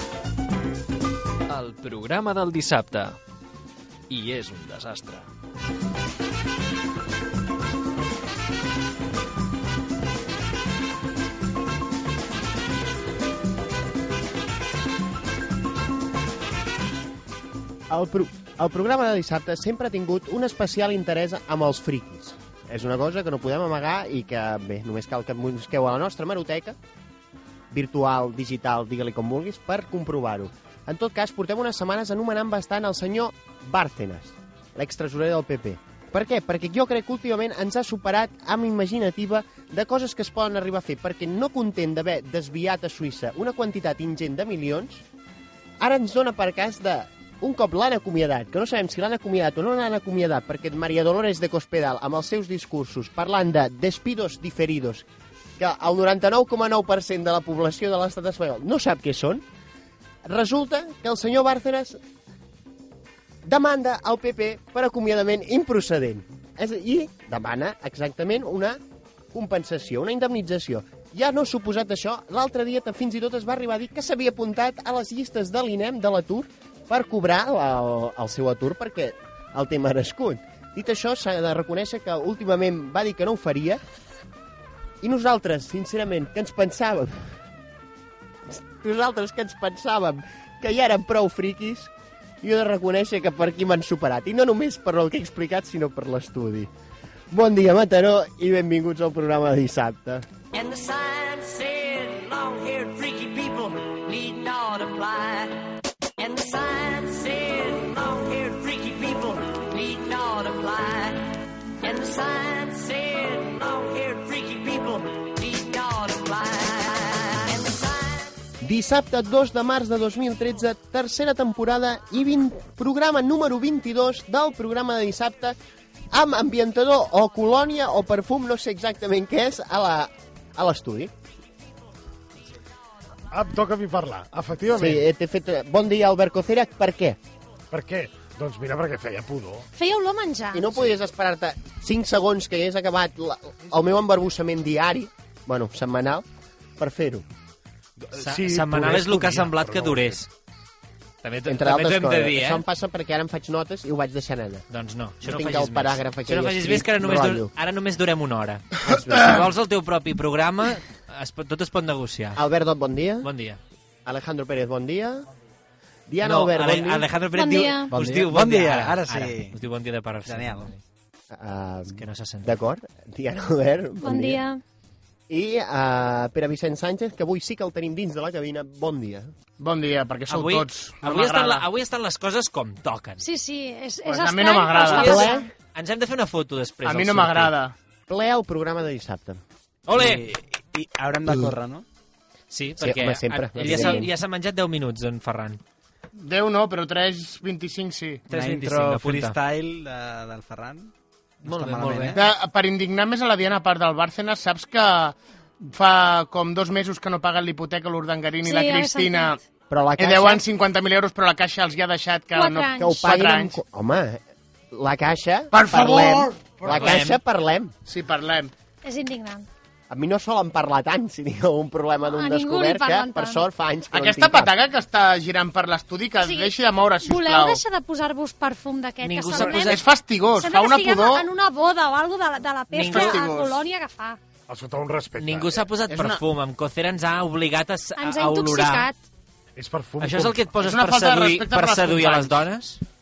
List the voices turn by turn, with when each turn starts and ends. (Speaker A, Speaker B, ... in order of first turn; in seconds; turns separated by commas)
Speaker A: 1.5-3.2, Speaker A: 4.1-5.3, Speaker B: 17.9-26.8, Speaker B: 27.7-45.0, Speaker B: 45.8-55.1, Speaker B: 55.6-59.4, Speaker B: 60.2-62.0, Speaker B: 63.4-68.8, Speaker B: 69.3-83.8, Speaker B: 85.0-87.4, Speaker B: 88.5-96.7, Speaker B: 97.3-100.3, Speaker C: 100.6-105.5, Speaker C: 106.2-111.2, Speaker C: 111.8-118.0, Speaker B: 118.6-125.6, Speaker B: 126.1-131.1, Speaker D: 133.3-135.0, Speaker B: 134.7-137.2, Speaker D: 137.7-139.7, Speaker E: 139.8-140.7, Speaker B: 140.5-146.2, Speaker B: 146.8-147.3, Speaker D: 148.0-150.2, Speaker F: 148.2-150.3, Speaker F: 151.2-152.6, Speaker B: 151.5-154.7, Speaker F: 154.7-162.4, Speaker B: 155.2-157.5, Speaker B: 158.8-159.5, Speaker B: 162.3-163.3, Speaker F: 163.2-163.6, Speaker B: 164.1-165.3, Speaker B: 166.1-167.1, Speaker F: 166.2-170.8, Speaker E: 167.3-167.9, Speaker G: 167.9-169.6, Speaker G: 170.2-170.7, Speaker B: 171.3-174.4, Speaker F: 171.9-172.6, Speaker E: 174.0-174.6, Speaker B: 175.3-179.3, Speaker H: 179.6-181.7, Speaker F: 180.3-183.2, Speaker E: 183.2-185.5, Speaker H: 184.1-185.4, Speaker F: 184.8-187.5, Speaker B: 185.0-185.5, Speaker H: 186.8-187.8, Speaker B: 188.1-189.4, Speaker F: 189.9-190.4, Speaker G: 189.9-191.8, Speaker F: 192.5-195.6, Speaker B: 192.8-194.1, Speaker E: 193.7-194.0, Speaker H: 196.2-198.2, Speaker F: 198.3-199.4, Speaker G: 198.3-200.9, Speaker G: 201.4-202.3, Speaker F: 201.4-202.2, Speaker H: 202.2-209.4, Speaker E: 208.4-209.3, Speaker B: 209.7-210.4, Speaker H: 210.0-213.6, Speaker E: 212.3-213.0, Speaker B: 212.8-217.7, Speaker H: 215.5-217.1, Speaker F: 216.7-217.2, Speaker H: 217.9-218.5, Speaker E: 218.8-219.5, Speaker B: 219.9-224.5, Speaker E: 222.0-223.4, Speaker H: 223.9-227.6, Speaker E: 226.2-229.8, Speaker F: 229.0-229.9, Speaker H: 229.4-231.3, Speaker E: 230.4-234.2, Speaker F: 232.7-233.2, Speaker H: 232.7-233.6, Speaker D: 234.5-235.6, Speaker F: 235.2-238.9, Speaker H: 235.9-236.2, Speaker E: 238.0-239.0, Speaker D: 239.6-240.5, Speaker F: 240.0-242.8, Speaker H: 240.6-242.4